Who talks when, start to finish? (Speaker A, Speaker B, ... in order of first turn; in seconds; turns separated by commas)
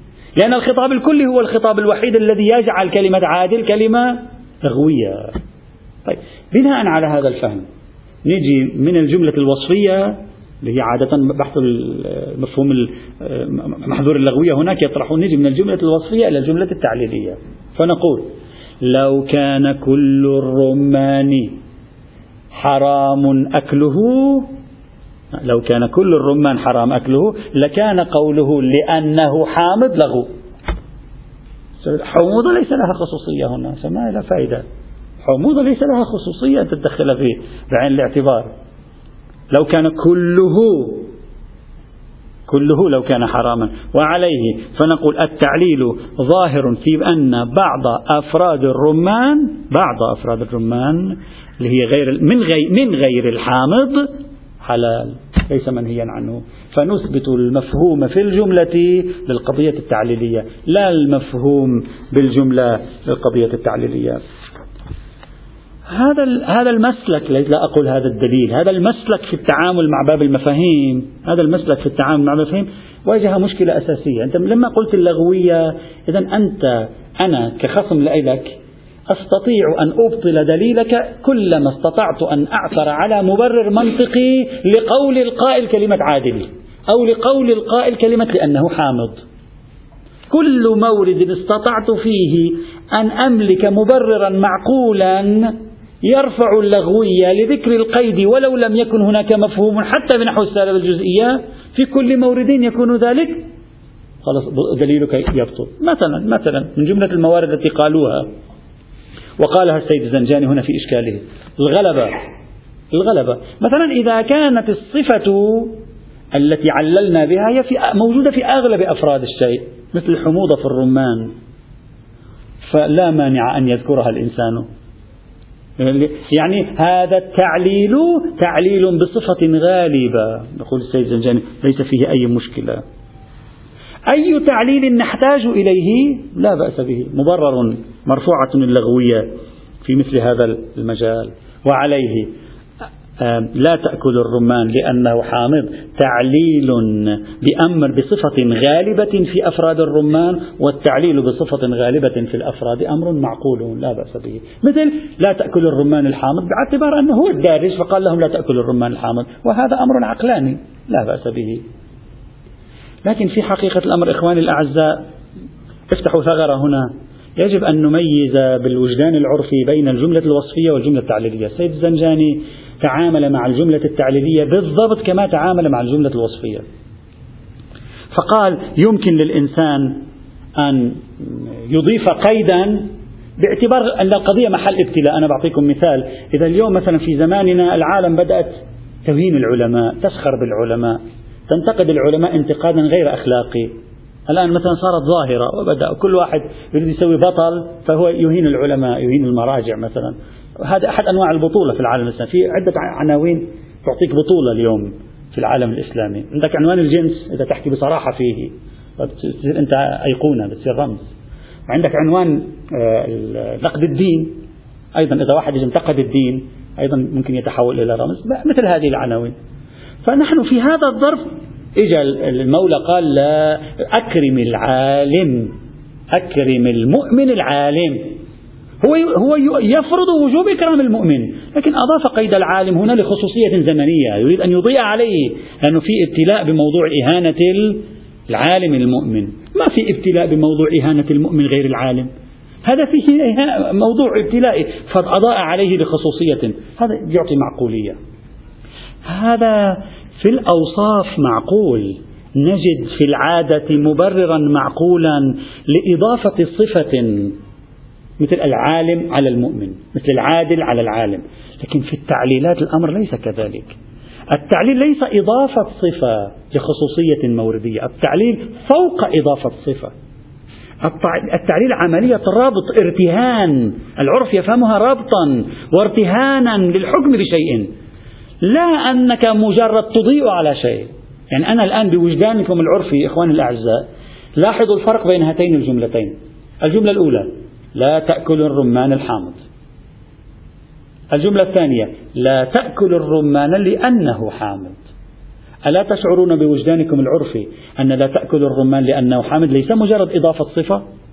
Speaker A: 0.4-5.3, Speaker A: 6.0-7.7, Speaker A: 8.2-18.3, Speaker A: 18.8-21.5, Speaker A: 22.5-24.5, Speaker A: 25.4-30.3, Speaker A: 31.8-34.6, Speaker A: 35.2-38.5, Speaker A: 39.5-41.1, Speaker A: 42.5-64.2, Speaker A: 65.9-78.6, Speaker A: 79.1-89.2, Speaker A: 90.3-103.4, Speaker A: 104.2-108.3, Speaker A: 109.4-112.2, Speaker A: 112.9-115.8, Speaker A: 116.3-121.3, Speaker A: 122.7-124.7, Speaker A: 125.8-132.8, Speaker A: 134.1-139.3, Speaker A: 139.8-142.3, Speaker A: 143.2-161.6, Speaker A: 163.0-165.0, Speaker A: 165.9-176.6, Speaker A: 178.1-180.0, Speaker A: 180.6-193.7, Speaker A: 194.3-211.1, Speaker A: 211.7-214.4, Speaker A: 214.9-219.3, Speaker A: 220.0-221.3, Speaker A: 221.8-225.5, Speaker A: 226.1-228.2, Speaker A: 228.8-242.1, Speaker A: 242.6-248.0, Speaker A: 249.1-257.4, Speaker A: 258.2-263.7, Speaker A: 264.3-269.9, Speaker A: 270.8-277.7, Speaker A: 278.4-289.4, Speaker A: 291.1-294.8, Speaker A: 295.6-300.8